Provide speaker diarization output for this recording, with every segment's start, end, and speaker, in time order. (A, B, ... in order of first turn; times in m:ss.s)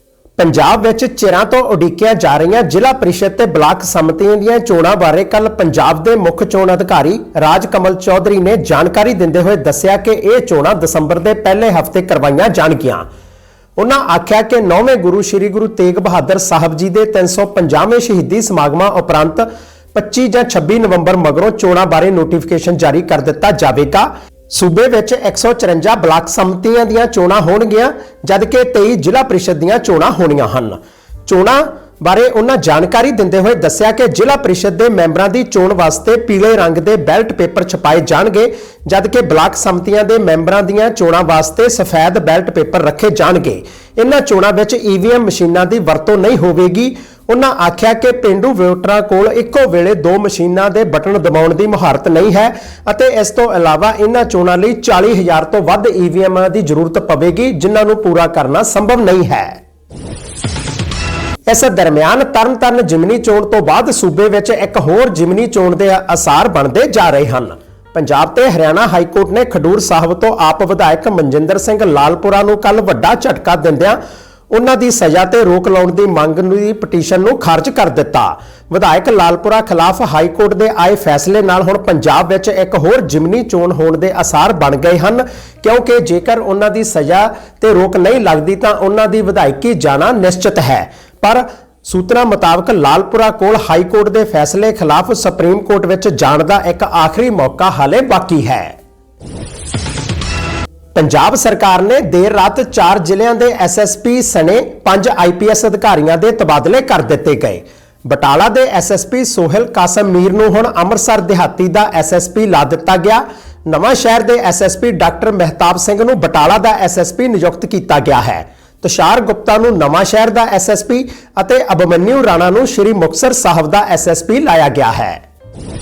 0:00.4-0:13.1 A
0:13.8-0:59.6 A
1:01.5-1:14.0 A
1:14.5-1:38.8 A
1:41.0-2:05.2 A